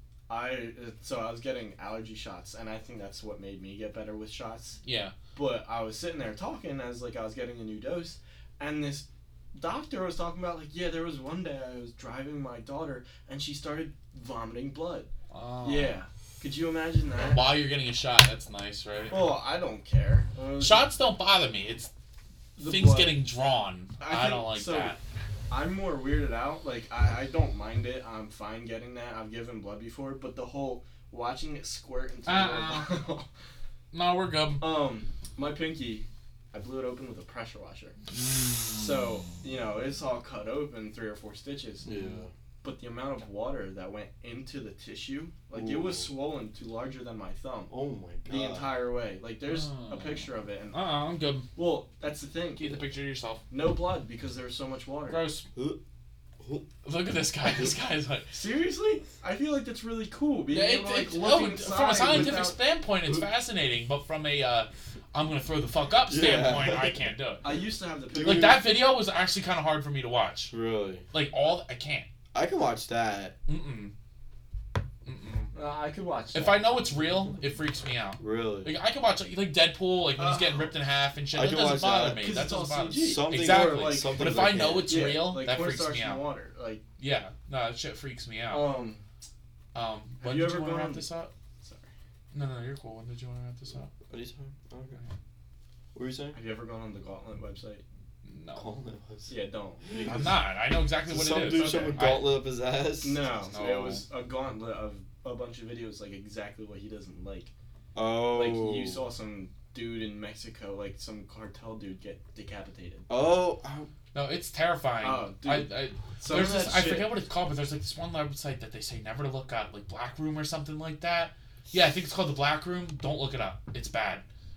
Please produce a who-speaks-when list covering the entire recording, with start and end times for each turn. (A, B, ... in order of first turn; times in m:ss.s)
0:00.3-0:04.8 A
0:04.8-0:05.1 B
0:05.3-0:15.1 A
0:15.3-0:16.0 B
0:15.6-0:17.6 A
0:17.3-0:19.3 B
0:19.1-0:20.9 A
0:20.6-0:21.9 B
0:22.6-0:23.2 A
0:22.6-0:25.0 B
0:24.0-0:25.0 A
0:25.5-0:33.3 A
0:32.3-0:32.9 B
0:33.9-0:34.6 B
0:34.6-0:38.0 A
0:38.6-0:41.9 A
0:41.8-0:42.3 C
0:41.8-0:42.2 B
0:42.6-0:47.7 A
0:45.5-0:46.1 C
0:47.7-0:48.7 C
0:48.3-0:50.8 A
0:49.5-0:51.5 B
0:51.6-0:52.9 A
0:52.6-0:53.4 B
0:53.5-0:55.3 A
0:55.1-0:55.5 B
0:55.5-0:55.8 C
0:56.4-0:56.7 C
0:56.8-0:58.3 B
0:58.3-1:02.6 A
1:00.5-1:07.4 B
1:02.1-1:02.4 C
1:06.1-1:07.0 C
1:07.4-1:08.6 A
1:08.1-1:08.6 C
1:08.2-1:10.5 B
1:10.5-1:11.1 C
1:11.1-1:12.1 B
1:12.3-1:13.4 C
1:13.5-1:13.9 B
1:15.0-1:15.5 B
1:15.5-1:16.7 A
1:16.3-1:26.2 B
1:18.2-1:18.7 C
1:20.2-1:20.7 A
1:21.3-1:22.2 C
1:22.2-1:26.8 A
1:23.0-1:25.0 C
1:27.0-1:28.7 B
1:28.5-1:29.0 A
1:29.7-1:31.3 B
1:30.2-1:31.1 A
1:31.6-1:31.9 A
1:32.3-1:33.9 B
1:33.9-1:35.0 C
1:35.9-1:36.4 C
1:36.3-1:37.8 A
1:38.2-1:38.8 B
1:38.5-1:39.4 C
1:39.3-1:40.4 A
1:39.9-1:40.3 C
1:40.1-1:42.4 B
1:41.1-1:43.3 C
1:43.0-1:47.5 A
1:43.5-1:44.0 B
1:47.9-1:49.1 C
1:48.3-1:53.1 A
1:53.1-1:53.9 C
1:54.1-2:04.2 B
1:55.0-1:57.1 A